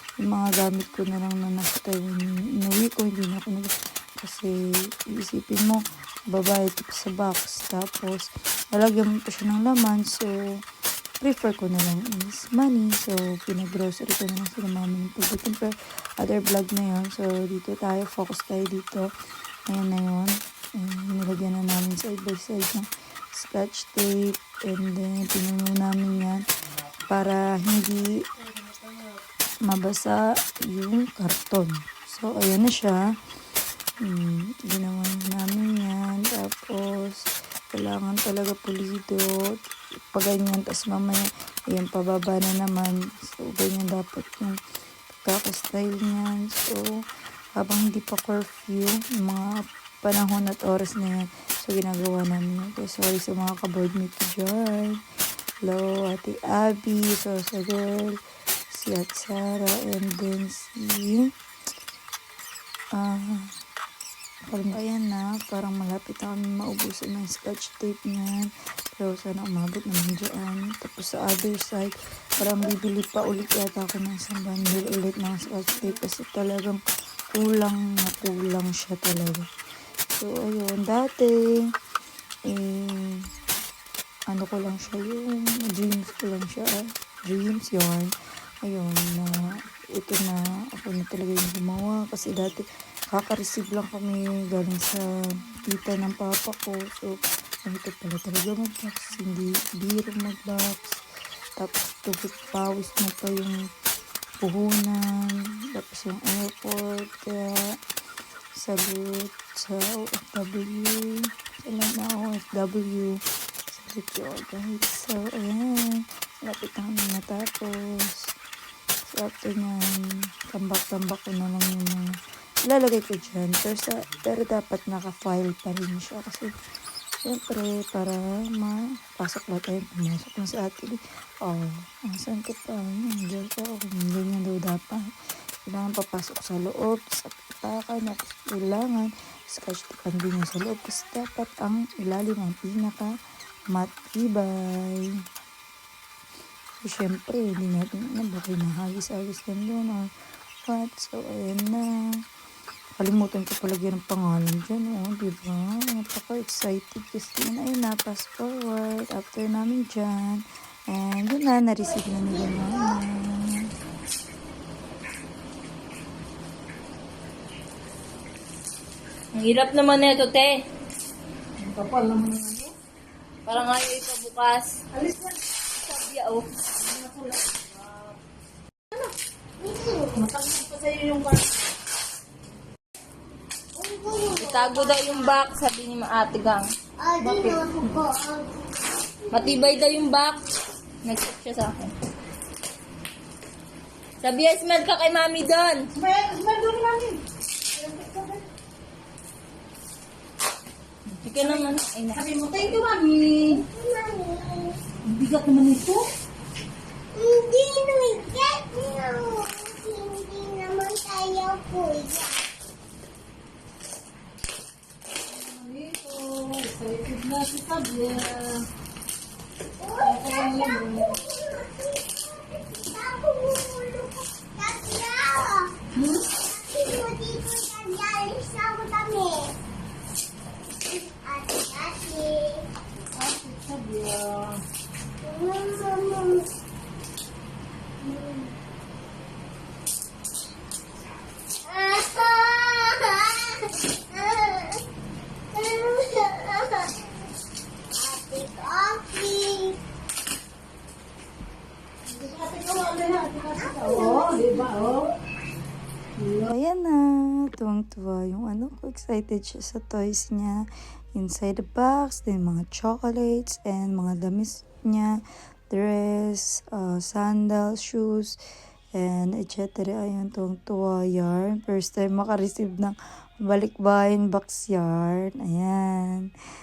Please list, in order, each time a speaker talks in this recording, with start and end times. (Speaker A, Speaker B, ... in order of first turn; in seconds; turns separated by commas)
Speaker A: 0.2-10.3, Speaker A: 11.2-19.1, Speaker A: 19.7-26.4, Speaker A: 27.1-28.2, Speaker A: 29.6-33.0, Speaker A: 34.0-39.3, Speaker A: 40.1-44.5, Speaker A: 45.2-46.8, Speaker A: 47.6-55.0, Speaker A: 55.6-58.2, Speaker A: 58.7-61.3, Speaker A: 63.0-63.5, Speaker A: 64.5-76.8, Speaker A: 77.3-79.5, Speaker A: 80.1-81.4, Speaker A: 82.5-83.3, Speaker A: 84.3-88.1, Speaker A: 88.6-89.4, Speaker A: 90.0-101.0, Speaker A: 101.6-103.6, Speaker A: 104.4-107.6, Speaker A: 108.6-113.1, Speaker A: 113.7-118.2, Speaker A: 119.0-122.1, Speaker A: 122.7-126.5, Speaker A: 127.2-135.1, Speaker A: 135.7-143.1, Speaker A: 143.7-145.1, Speaker A: 146.8-150.0, Speaker A: 150.7-151.8, Speaker A: 153.0-163.7, Speaker B: 161.9-163.0, Speaker C: 169.3-170.6, Speaker D: 171.6-172.7, Speaker C: 173.4-174.8, Speaker D: 174.9-175.4, Speaker C: 175.8-176.5, Speaker D: 176.7-178.2, Speaker B: 178.9-180.3, Speaker D: 180.2-181.6, Speaker B: 183.8-185.4, Speaker C: 184.4-186.7, Speaker B: 187.0-188.5, Speaker D: 187.2-188.1, Speaker B: 189.2-189.8, Speaker C: 189.3-190.5, Speaker C: 191.0-191.9, Speaker C: 194.2-195.9, Speaker D: 195.9-198.4, Speaker C: 201.2-202.3, Speaker D: 201.3-203.6, Speaker B: 203.5-204.8, Speaker D: 205.0-206.1, Speaker B: 207.1-212.5, Speaker D: 215.3-218.7, Speaker B: 219.8-229.5, Speaker D: 220.0-221.2, Speaker D: 226.0-226.3, Speaker B: 230.8-232.7, Speaker D: 233.0-234.6, Speaker B: 235.2-236.5, Speaker B: 238.0-238.5, Speaker B: 241.6-244.8, Speaker B: 245.5-247.2, Speaker B: 247.9-249.8, Speaker D: 252.1-255.1, Speaker B: 253.5-254.6, Speaker D: 256.2-256.5, Speaker A: 256.4-260.6, Speaker A: 261.1-265.2, Speaker A: 265.7-268.3, Speaker A: 268.9-276.3